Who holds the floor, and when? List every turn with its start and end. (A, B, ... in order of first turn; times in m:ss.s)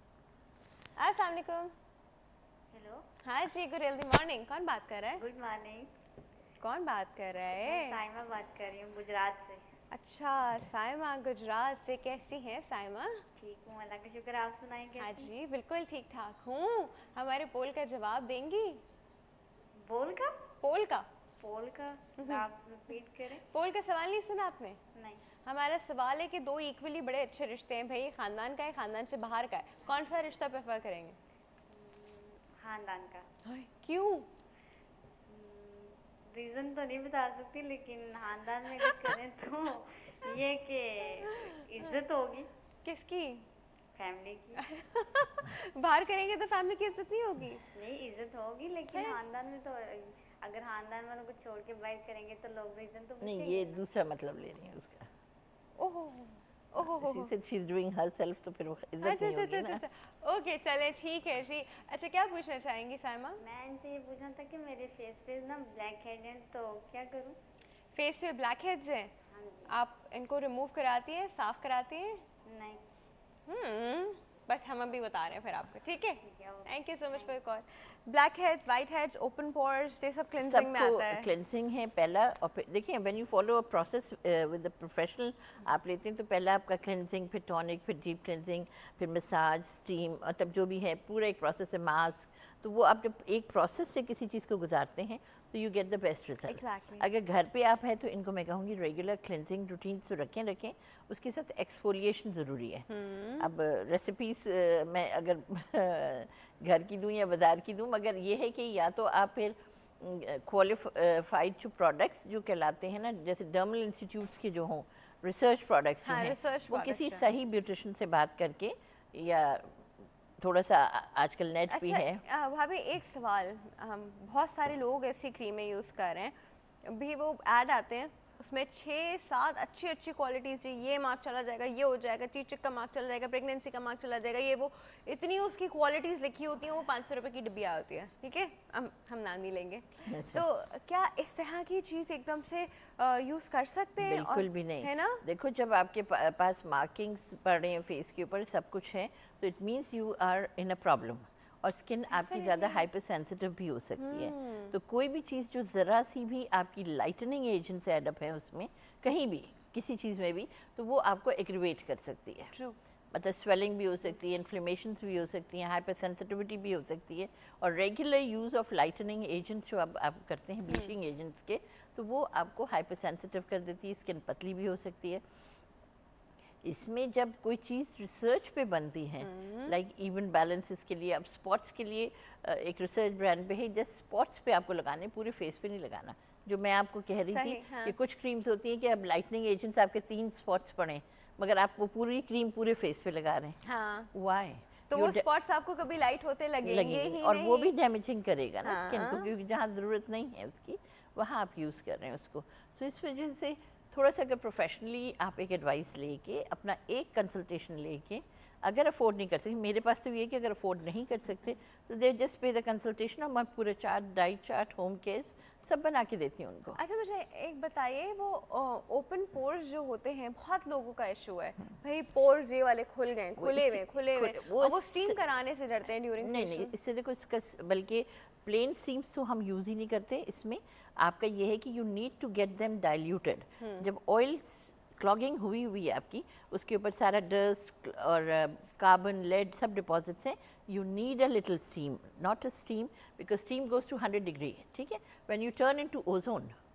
0:01.0-0:01.7 A
0:02.7-0:03.0 B
0:03.2-0:05.2 A
0:05.2-0:05.9 B
0:06.6-0:08.0 A
0:07.6-0:09.6 B
0:09.9-0:13.2 A
0:13.4-0:15.3 B
0:15.0-0:18.8 A
0:19.8-0:20.5 B
0:20.6-0:21.1 A
0:21.4-0:23.4 B
0:22.2-0:22.4 A
0:23.4-0:24.8 A
0:24.9-0:25.2 B
0:25.4-0:31.2 A
0:31.7-0:33.3 B
0:33.4-0:34.3 A
0:35.3-0:42.5 B
0:41.3-0:41.6 A
0:42.8-0:43.5 A
0:44.0-0:44.6 B
0:44.6-0:47.6 A
0:47.7-0:53.8 B
0:53.2-0:55.1 C
0:55.8-0:57.3 A
0:56.8-0:59.8 C
0:59.0-1:03.4 A
1:03.4-1:07.4 B
1:08.0-1:09.1 A
1:09.3-1:09.7 B
1:09.7-1:12.2 A
1:12.5-1:12.8 B
1:13.5-1:21.3 A
1:16.2-1:17.3 B
1:20.4-1:42.9 C
1:36.5-1:37.1 A
1:42.9-1:43.5 A
1:43.4-1:59.8 C
1:56.0-1:57.3 A
2:00.4-2:02.2 C
2:01.7-2:06.3 A
2:06.8-2:25.2 A
2:20.1-2:20.4 C
2:24.0-2:42.5 C
2:32.1-2:32.9 A
2:34.0-2:34.8 A
2:43.1-2:55.2 C
2:56.6-3:13.6 C
2:59.2-2:59.7 A
3:07.2-3:08.0 A
3:13.6-3:14.1 A
3:14.1-3:15.2 C
3:14.9-3:17.7 A
3:16.6-3:36.8 C
3:18.6-3:19.3 A
3:36.8-3:46.7 A
3:43.4-3:45.2 C
3:46.2-4:06.6 C